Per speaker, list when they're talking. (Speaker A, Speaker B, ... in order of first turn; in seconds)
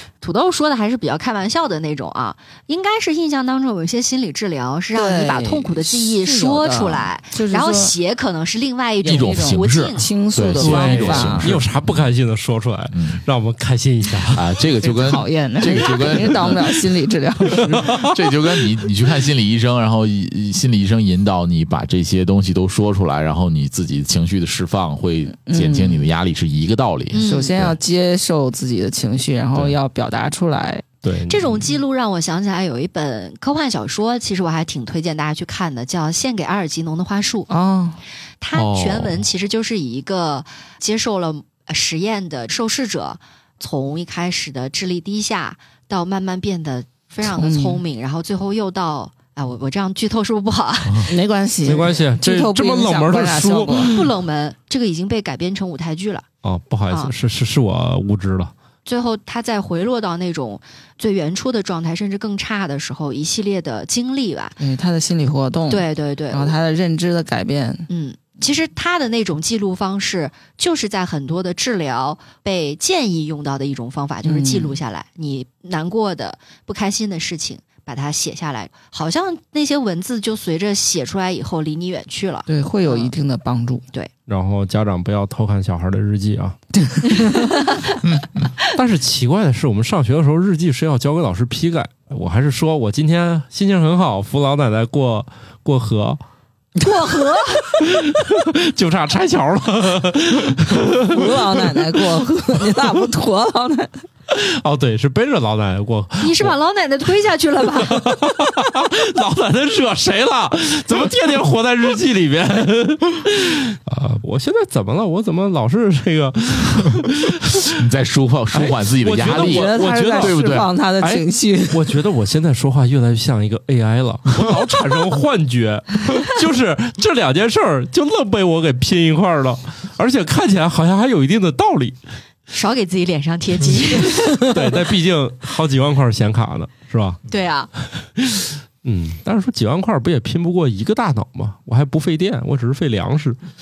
Speaker A: 0.2-10.1, 27.1-27.5, 31.3-37.5, 38.4-51.1, 53.9-56.3, 58.9-64.6, 65.7-66.6, 67.9-83.1, 87.2-88.0, 96.8-97.8, 106.2-108.2, 132.5-134.5, 137.3-137.7
Speaker B: 4.9-8.0, 9.0-11.6, 14.8-18.0, 25.5-26.1, 27.2-30.8, 37.5-38.0, 47.2-47.8, 51.0-53.9, 64.6-67.9, 74.2-74.8, 82.5-83.8, 86.8-87.6, 101.0-104.0, 119.3-122.0
Speaker C: 9.1-11.7, 12.9-13.2, 14.3-16.8, 17.8-27.8, 38.5-39.2, 88.1-88.4, 117.7-120.7
Speaker D: 10.6-14.7, 17.5-18.1, 31.0-31.7, 51.6-54.1, 56.4-58.5, 84.3-86.6, 88.7-96.2, 97.8-101.8, 104.3-106.5, 107.9-117.8, 118.5-132.0, 134.4-137.2, 137.9-143.4